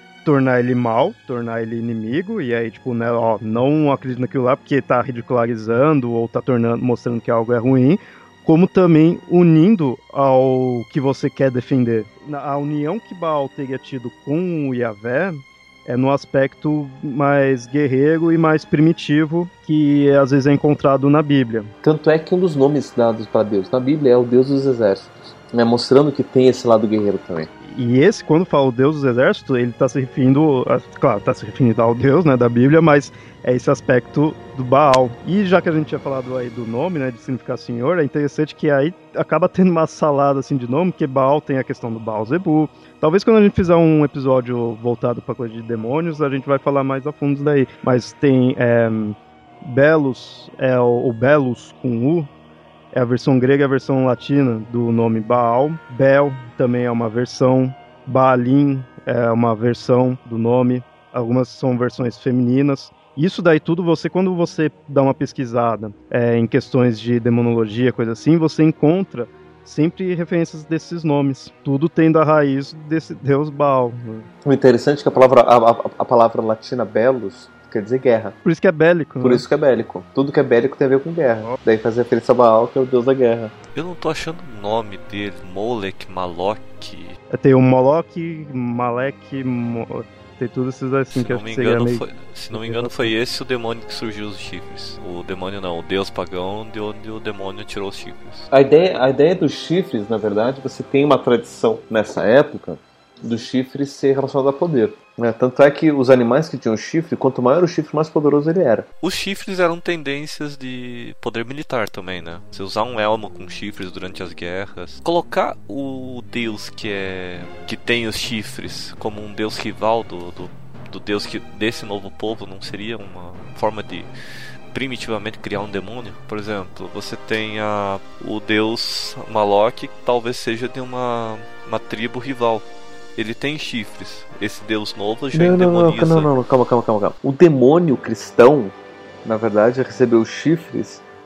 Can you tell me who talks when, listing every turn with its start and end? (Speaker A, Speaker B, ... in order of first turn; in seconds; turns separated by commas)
Speaker A: 0.2-21.7, Speaker B: 21.8-27.5, Speaker A: 27.7-52.3, Speaker A: 52.9-74.3, Speaker B: 74.4-78.4, Speaker A: 78.5-79.4, Speaker B: 79.2-83.5, Speaker C: 83.8-87.2, Speaker A: 87.3-93.1, Speaker C: 91.1-98.5, Speaker B: 98.5-108.9, Speaker C: 109.0-124.1, Speaker C: 124.7-136.3, Speaker B: 135.3-141.0